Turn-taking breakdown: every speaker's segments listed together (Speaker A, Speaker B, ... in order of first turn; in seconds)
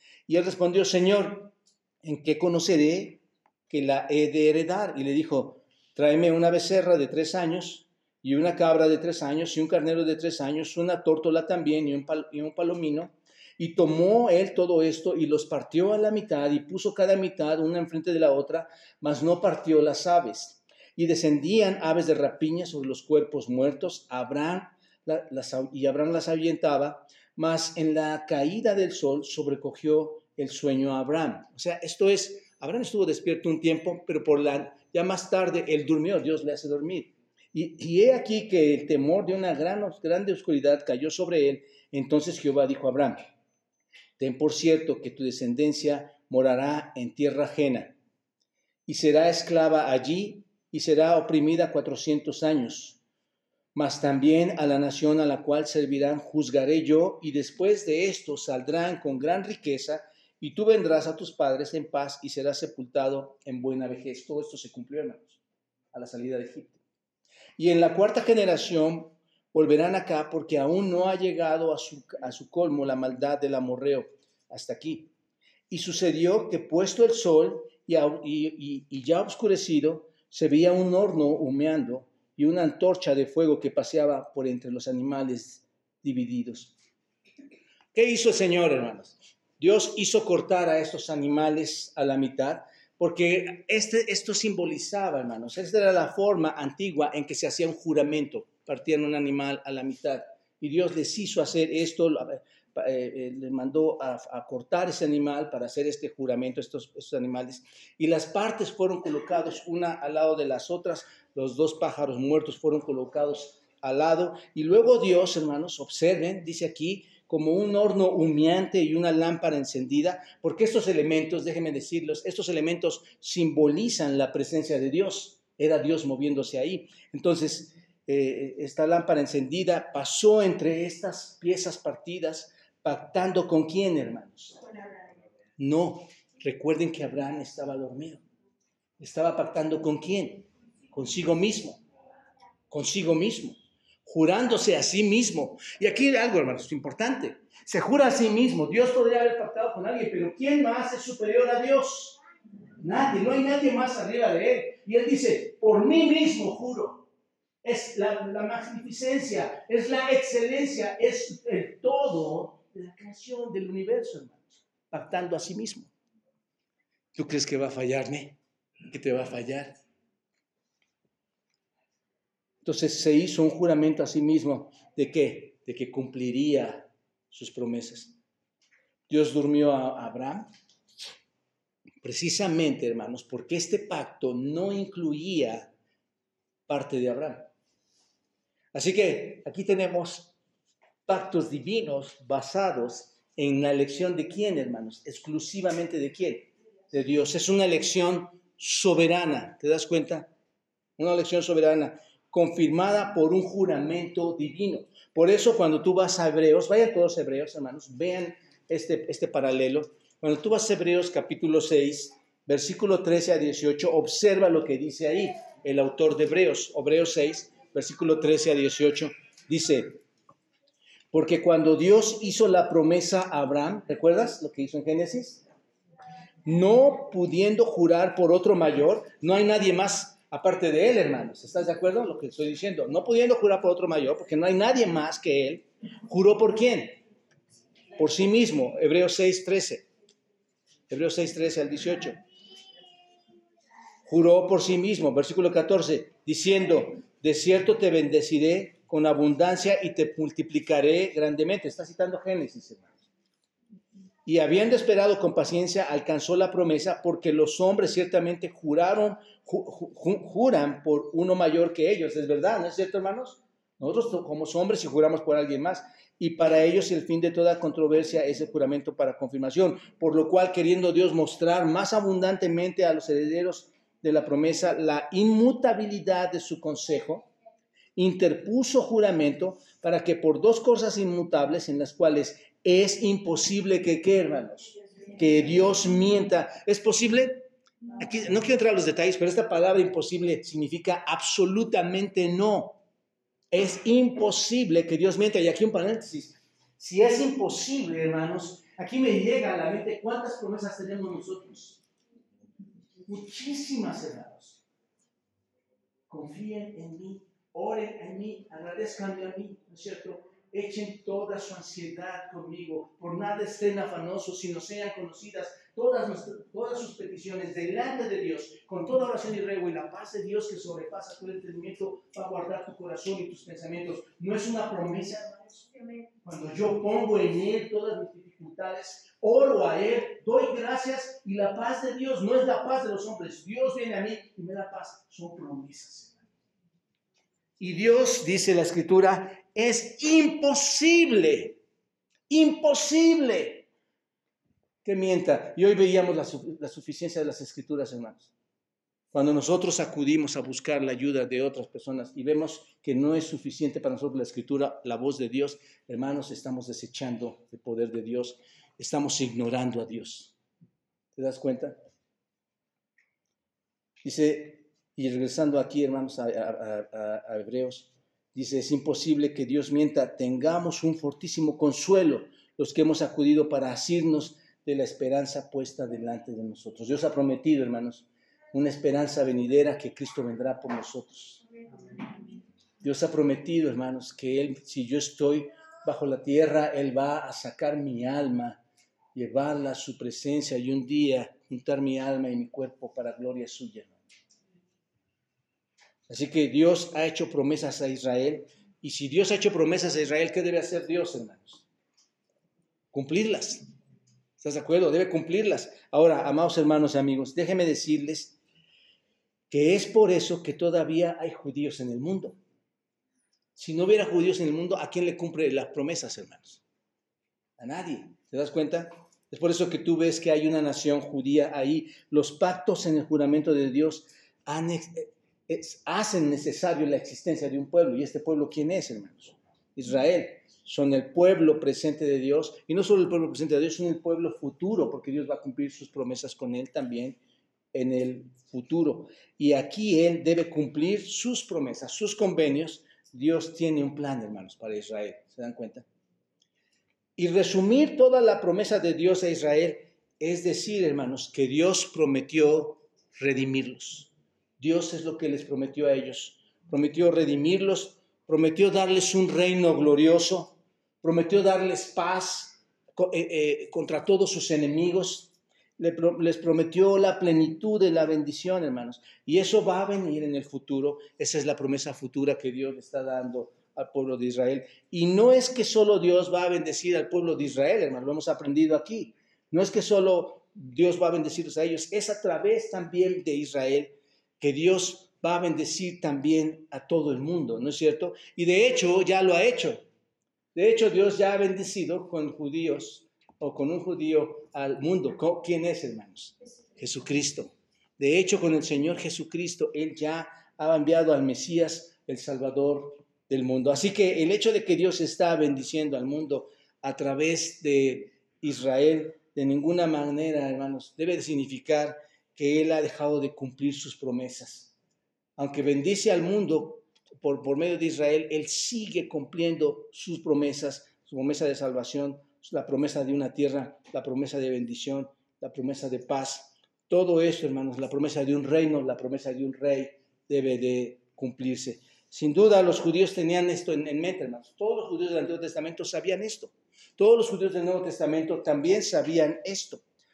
Speaker A: 0.3-43.2, 44.2-48.0, 48.9-53.0, 53.7-65.4, 65.9-66.8, 67.6-75.1, 75.7-86.8, 87.9-134.6, 135.6-138.2, 139.0-141.8, 142.7-152.2, 152.8-157.0, 157.6-165.9, 167.1-168.4, 168.9-169.7, 172.6-178.1, 179.1-180.5, 182.0-185.7, 186.7-187.5, 188.7-190.3, 191.1-200.3, 201.0-220.0, 221.1-225.4, 226.4-237.0, 237.9-239.9, 240.9-242.2, 244.1-253.1, 254.2-277.3, 277.9-287.5, 288.0-292.8, 293.5-301.8, 303.1-304.6, 306.1-336.2, 337.6-341.6, 342.3-343.7, 344.8-348.3, 349.1-360.3, 361.1-361.8, 364.0-381.4, 382.8-388.6, 389.1-394.0, 396.1-401.6, 402.9-403.7, 404.4-408.4, 409.5-412.4, 413.6-416.6, 417.6-437.2, 437.7-445.9, 447.2-489.8, 490.5-514.7, 515.4-539.8